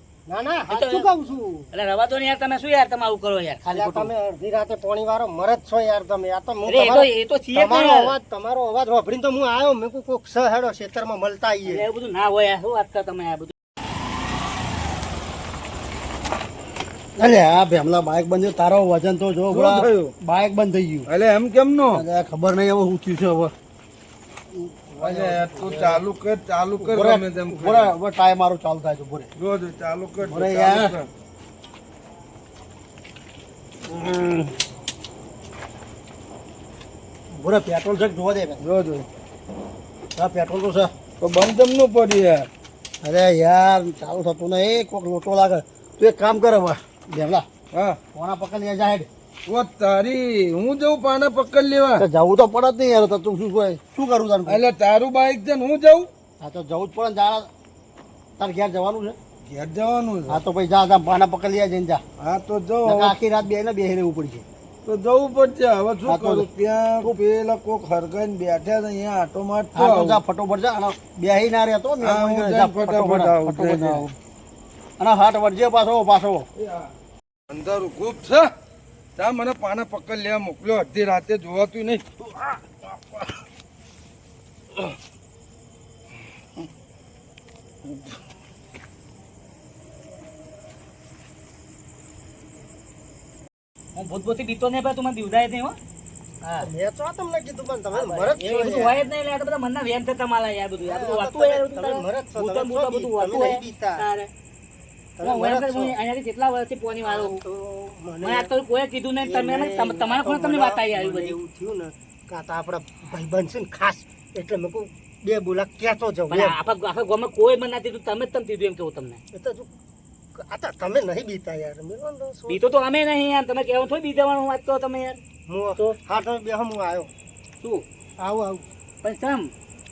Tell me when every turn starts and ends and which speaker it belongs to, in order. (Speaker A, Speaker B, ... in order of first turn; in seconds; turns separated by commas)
Speaker A: 0.3-1.7, Speaker B: 0.7-1.1, Speaker B: 1.7-4.1, Speaker A: 3.6-11.8, Speaker B: 6.7-8.1, Speaker B: 11.7-13.5, Speaker C: 17.2-21.1, Speaker D: 19.5-20.1, Speaker D: 21.1-22.0, Speaker C: 21.9-23.5, Speaker C: 24.5-26.0, Speaker D: 25.0-27.9, Speaker C: 26.8-29.3, Speaker D: 29.4-31.1, Speaker C: 30.2-30.9, Speaker C: 33.9-34.6, Speaker C: 37.3-38.6, Speaker D: 38.6-39.1, Speaker C: 40.2-40.9, Speaker D: 41.2-42.5, Speaker C: 43.0-47.5, Speaker D: 47.7-48.0, Speaker C: 48.1-49.1, Speaker D: 49.5-52.0, Speaker C: 52.0-54.6, Speaker D: 54.5-56.1, Speaker C: 56.4-57.5, Speaker C: 58.4-59.2, Speaker D: 59.4-60.4, Speaker C: 60.3-62.0, Speaker D: 62.2-63.2, Speaker C: 62.8-64.4, Speaker D: 64.8-70.2, Speaker C: 66.0-66.5, Speaker C: 69.8-74.1, Speaker D: 72.0-74.1, Speaker C: 75.0-76.5, Speaker D: 76.6-76.9, Speaker D: 77.5-78.5, Speaker D: 79.2-82.1, Speaker B: 93.9-95.8, Speaker B: 96.4-96.7, Speaker A: 96.6-99.1, Speaker B: 97.9-104.3, Speaker A: 100.8-104.1, Speaker A: 105.2-106.0, Speaker B: 105.2-107.4, Speaker A: 107.0-108.5, Speaker B: 108.2-111.4, Speaker A: 109.2-116.6, Speaker B: 116.3-119.2, Speaker A: 119.3-119.7, Speaker A: 120.3-122.6, Speaker B: 122.5-125.2, Speaker A: 125.5-127.1, Speaker B: 127.6-127.8, Speaker A: 128.2-128.6, Speaker B: 129.0-129.5